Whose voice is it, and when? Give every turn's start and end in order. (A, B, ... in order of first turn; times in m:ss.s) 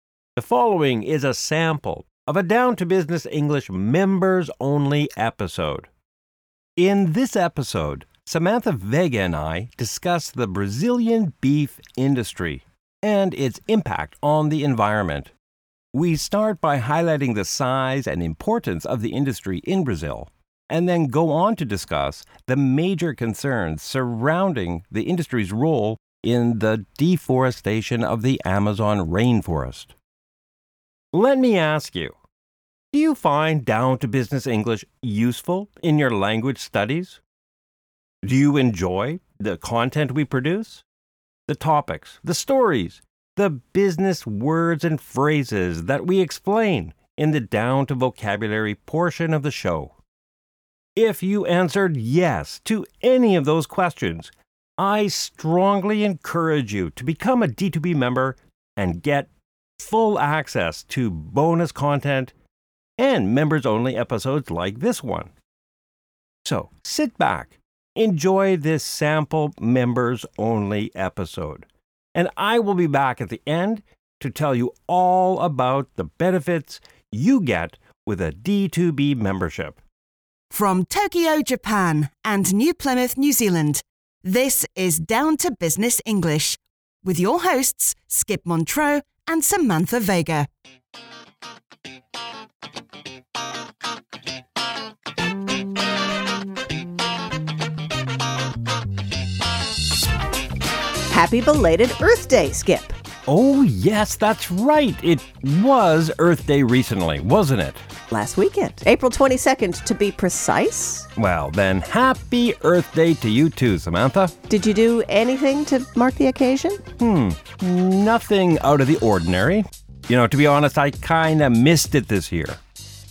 0:00.4-0:05.9 A
0:06.8-0:15.3 A
0:15.9-0:30.0 A
0:31.1-0:32.2 A
0:32.9-0:37.2 A
0:38.2-0:40.8 A
0:41.5-0:50.0 A
0:51.0-1:02.3 A
1:03.0-1:05.3 A
1:06.4-1:19.8 A
1:20.5-1:30.5 B
1:41.1-1:43.0 C
1:43.3-1:47.8 A
1:48.1-1:51.1 C
1:51.2-1:54.3 A
1:54.5-1:56.8 C
1:57.0-2:02.6 A